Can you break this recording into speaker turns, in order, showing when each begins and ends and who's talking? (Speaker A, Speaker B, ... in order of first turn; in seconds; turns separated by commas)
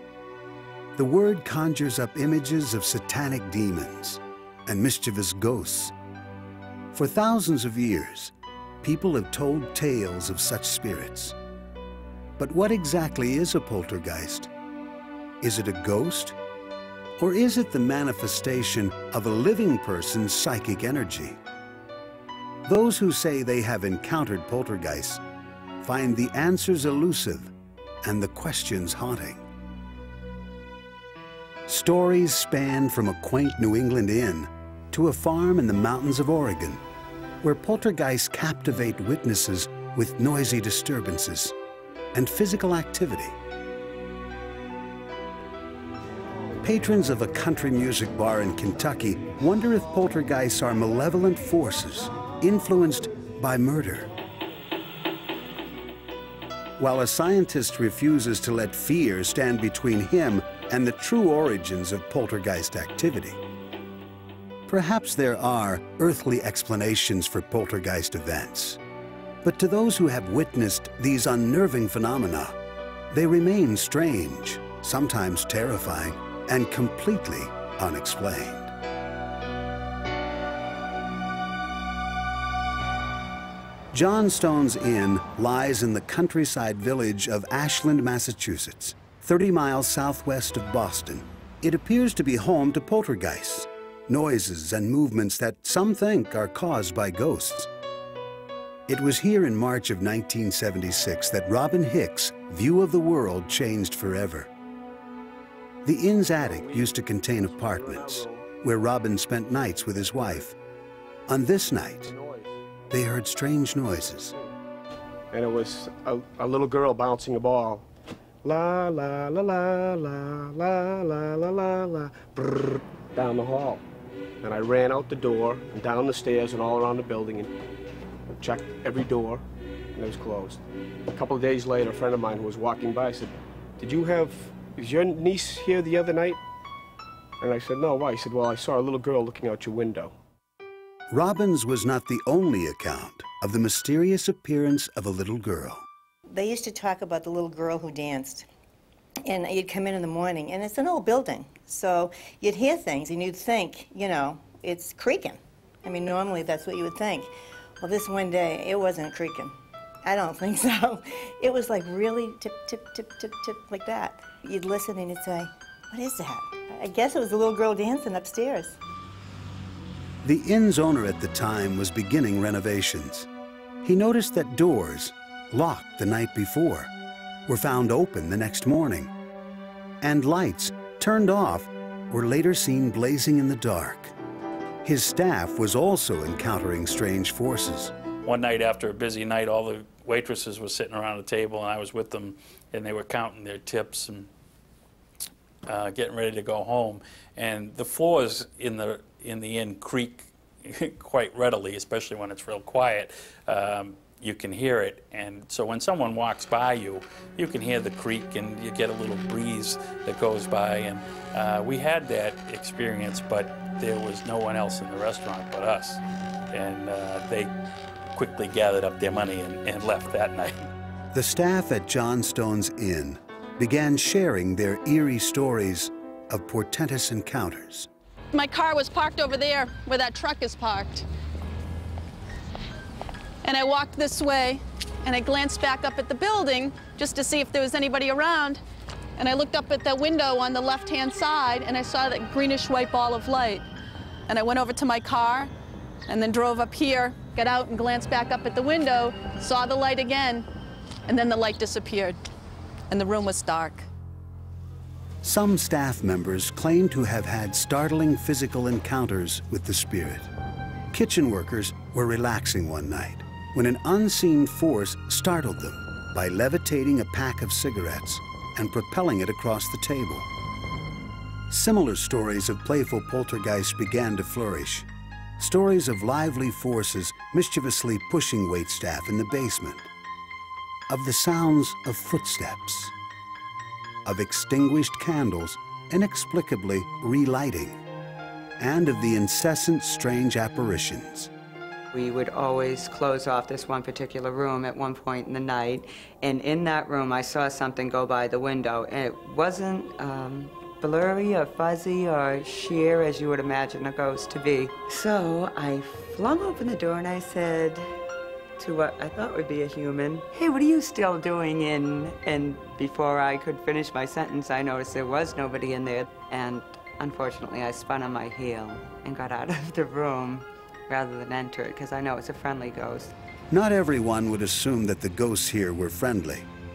Speaker A: 0.9-5.9, Speaker A: 6.9-11.3, Speaker A: 12.4-14.5, Speaker A: 15.4-16.4, Speaker A: 17.2-21.4, Speaker A: 22.6-25.2, Speaker A: 25.8-27.5, Speaker A: 28.0-29.5, Speaker A: 31.7-36.8, Speaker A: 37.4-41.5, Speaker A: 42.1-43.3, Speaker A: 46.6-54.1, Speaker A: 56.8-63.4, Speaker A: 64.7-68.8, Speaker A: 69.4-72.5, Speaker A: 73.1-78.7, Speaker A: 83.9-97.7, Speaker A: 98.9-104.5, Speaker A: 105.8-110.5, Speaker B: 106.4-106.8, Speaker B: 107.4-108.4, Speaker A: 111.3-112.1, Speaker B: 112.1-112.6, Speaker A: 112.9-114.3, Speaker B: 115.3-117.8, Speaker B: 118.4-123.8, Speaker B: 124.4-127.5, Speaker B: 128.3-129.4, Speaker B: 129.9-136.4, Speaker B: 137.4-140.1, Speaker A: 141.1-145.8, Speaker C: 146.3-148.4, Speaker C: 149.2-168.8, Speaker A: 170.2-173.3, Speaker A: 173.8-176.9, Speaker A: 177.5-179.1, Speaker A: 180.0-184.1, Speaker A: 184.8-187.9, Speaker D: 188.2-194.3, Speaker D: 195.7-217.5, Speaker D: 218.1-220.7, Speaker A: 221.1-227.9, Speaker E: 228.3-231.0, Speaker E: 233.4-238.6, Speaker E: 239.2-243.6, Speaker E: 244.3-245.5, Speaker E: 246.1-250.4, Speaker E: 251.1-252.2, Speaker E: 252.9-253.9, Speaker A: 255.2-260.3, Speaker A: 260.9-270.3, Speaker A: 271.5-274.9, Speaker A: 275.4-279.9, Speaker A: 280.9-282.9, Speaker A: 284.0-287.8, Speaker A: 288.6-291.3, Speaker F: 291.9-307.9, Speaker F: 308.6-323.1, Speaker A: 323.5-326.5